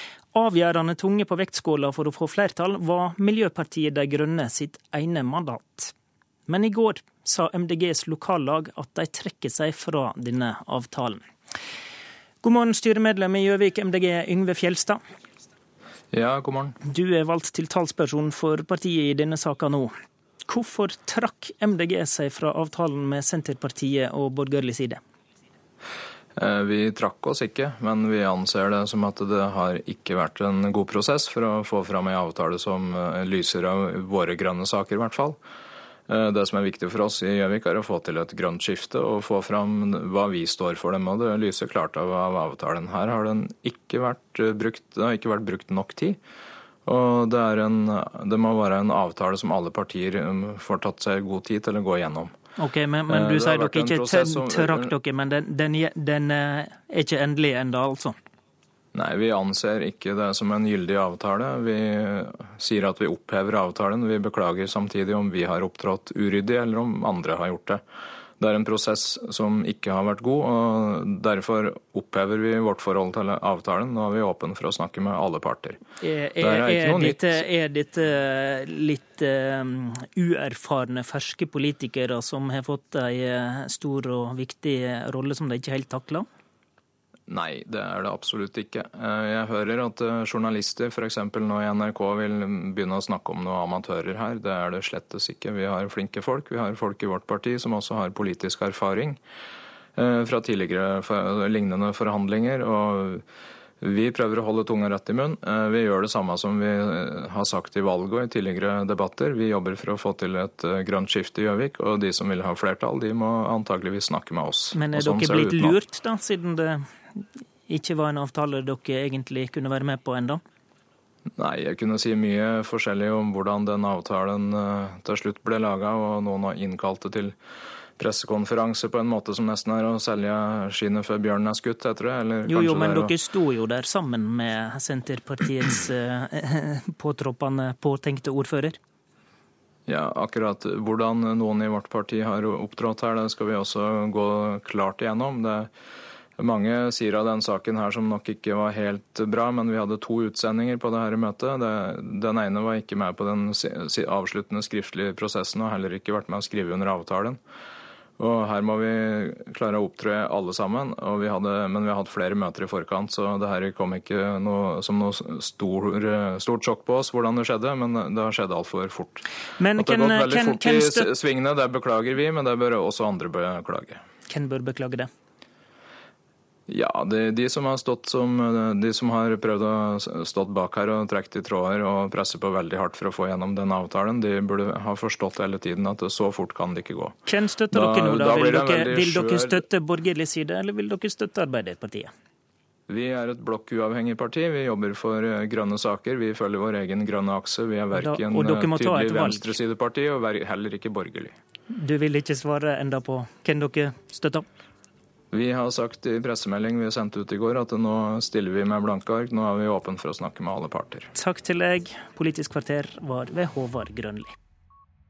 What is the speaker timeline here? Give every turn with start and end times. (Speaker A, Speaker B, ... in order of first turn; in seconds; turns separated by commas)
Speaker A: 0.3-5.9, Speaker A: 6.5-11.2, Speaker A: 12.4-15.0, Speaker B: 16.1-16.7, Speaker A: 16.8-19.9, Speaker A: 20.5-25.0, Speaker B: 26.4-35.4, Speaker B: 36.1-46.2, Speaker B: 46.9-52.3, Speaker A: 52.6-58.1, Speaker B: 53.1-54.9, Speaker B: 58.9-67.8, Speaker B: 68.4-75.8, Speaker A: 76.0-86.3, Speaker B: 76.4-77.4, Speaker B: 87.3-99.2, Speaker B: 100.0-103.2, Speaker B: 103.8-115.8, Speaker A: 114.7-116.9, Speaker A: 117.7-120.4, Speaker B: 121.4-127.3, Speaker B: 128.0-133.1, Speaker A: 132.5-138.8, Speaker B: 139.9-145.7, Speaker B: 146.4-157.4, Speaker B: 158.2-169.2, Speaker A: 169.6-171.1, Speaker B: 169.7-174.0, Speaker A: 174.3-175.1, Speaker B: 176.7-187.2, Speaker A: 187.3-192.1, Speaker B: 187.7-189.6, Speaker B: 192.9-201.3, Speaker A: 197.9-199.5, Speaker A: 201.7-204.4, Speaker B: 205.3-211.1, Speaker A: 211.1-214.3